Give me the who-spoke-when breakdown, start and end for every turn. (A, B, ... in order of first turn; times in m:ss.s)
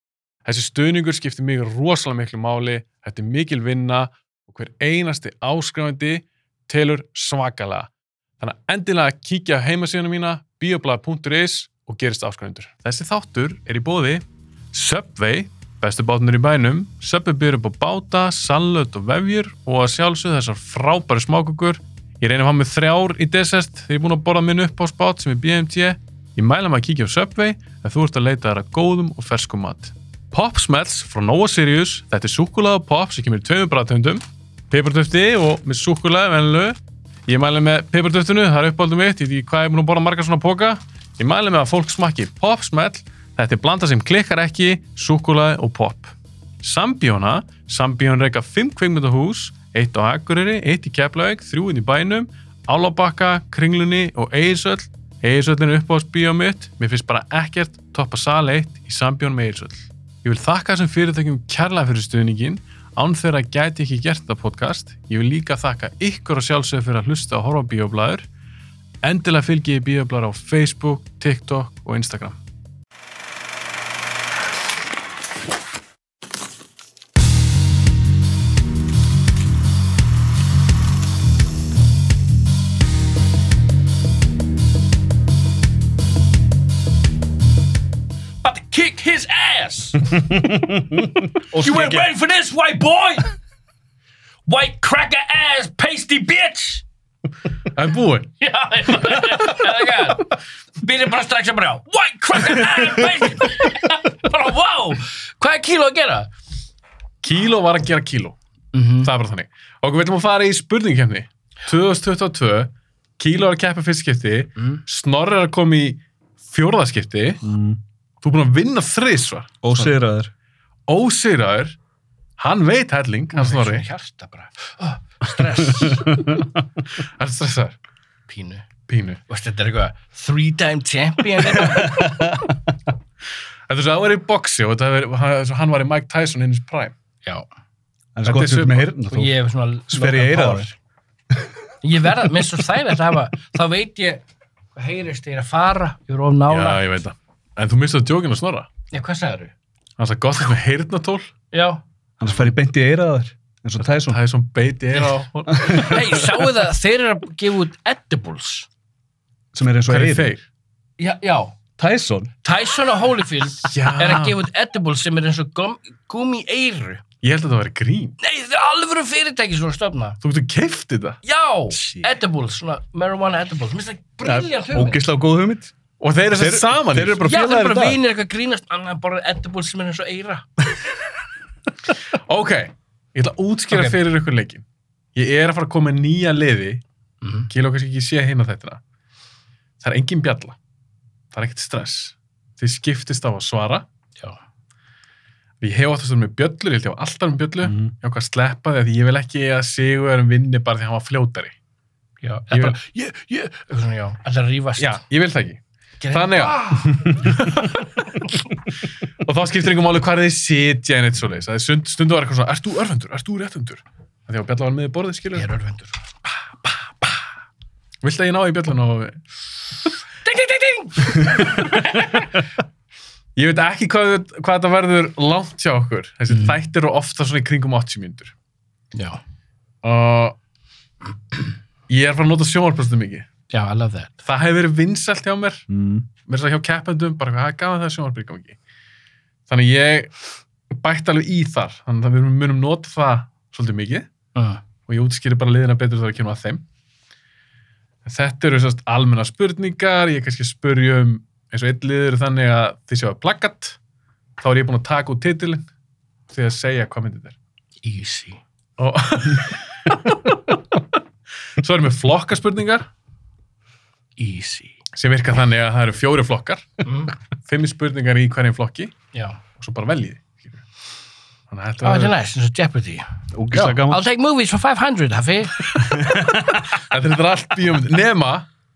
0:00.4-1:08.3 A
1:09.0-1:12.4 A
1:28.4-1:30.0 B
1:30.2-1:32.1 C
1:31.5-1:33.3 B
1:34.5-1:36.8 B
1:37.7-1:38.3 A
1:38.4-1:46.3 B
1:47.2-1:48.4 A
1:48.7-1:49.1 B
1:49.0-1:57.4 A
1:54.6-1:54.8 B
1:57.4-1:57.8 C
1:58.2-2:00.0 A
1:59.6-2:00.3 C
2:00.9-2:01.8 A
2:02.4-2:03.9 A
2:03.3-2:06.3 B
2:05.9-2:06.4 C
2:07.0-2:07.8 A
2:08.3-2:08.7 B
2:08.9-2:09.2 A
2:09.3-2:12.4 B
2:11.5-2:12.6 C
2:13.7-2:16.9 A
2:18.2-2:19.4 C
2:18.2-2:18.9 A
2:19.1-2:20.7 B
2:19.9-2:20.7 C
2:21.8-2:24.2 B
2:24.8-2:26.8 B
2:26.5-2:28.7 A
2:28.9-2:29.5 B
2:30.0-2:31.3 A
2:31.5-2:31.8 B
2:32.2-2:34.2 C
2:34.0-2:36.4 A
2:34.9-2:38.7 B
2:39.5-2:40.3 C
2:39.9-2:40.4 A
2:41.0-2:41.6 B
2:41.8-2:42.3 C
2:42.4-2:47.0 B
2:43.6-2:44.4 A
2:47.2-2:48.2 A
2:48.2-2:50.2 B
2:50.2-2:51.2 A
2:51.2-2:55.0 B
2:51.7-2:52.1 C
2:54.2-2:55.7 C
2:56.0-2:57.3 A
2:56.4-2:58.0 C
2:57.2-3:00.5 B
3:02.3-3:04.6 A
3:03.7-3:04.0 B
3:05.2-3:06.8 A
3:07.2-3:07.5 B
3:07.5-3:08.8 A
3:09.8-3:10.6 A
3:11.3-3:13.9 A
3:15.6-3:21.6 A
3:22.2-3:25.0 B
3:22.5-3:22.8 A
3:24.8-3:28.3 A
3:26.0-3:27.3 B
3:29.2-3:35.5 A
3:35.4-3:36.0 B
3:36.6-3:37.2 A
3:38.0-3:39.2 A
3:40.2-3:42.3 B
3:41.5-3:42.1 A
3:43.4-3:48.3 A
3:48.9-3:49.2 B
3:49.8-3:50.4 A
3:51.9-3:53.3 A
3:53.5-3:54.2 B
3:54.2-3:55.7 A
3:55.7-3:56.1 C
3:56.2-3:58.6 A
3:59.5-4:00.1 A
4:00.7-4:04.1 A
4:04.4-4:04.6 B
4:04.9-4:06.6 A
4:08.0-4:13.8 A
4:14.4-4:15.6 A
4:16.3-4:17.4 A
4:17.8-4:18.4 B
4:18.8-4:20.6 A
4:21.6-4:22.9 A
4:24.2-4:24.8 B
4:24.9-4:26.8 A
4:26.8-4:27.1 B
4:27.4-4:29.0 A
4:29.1-4:29.4 B
4:29.6-4:30.6 A
4:31.5-4:32.2 A
4:31.8-4:33.1 B
4:33.3-4:34.0 C
4:33.5-4:33.8 A
4:33.8-4:35.8 B
4:35.7-4:38.5 A
4:36.0-4:36.6 C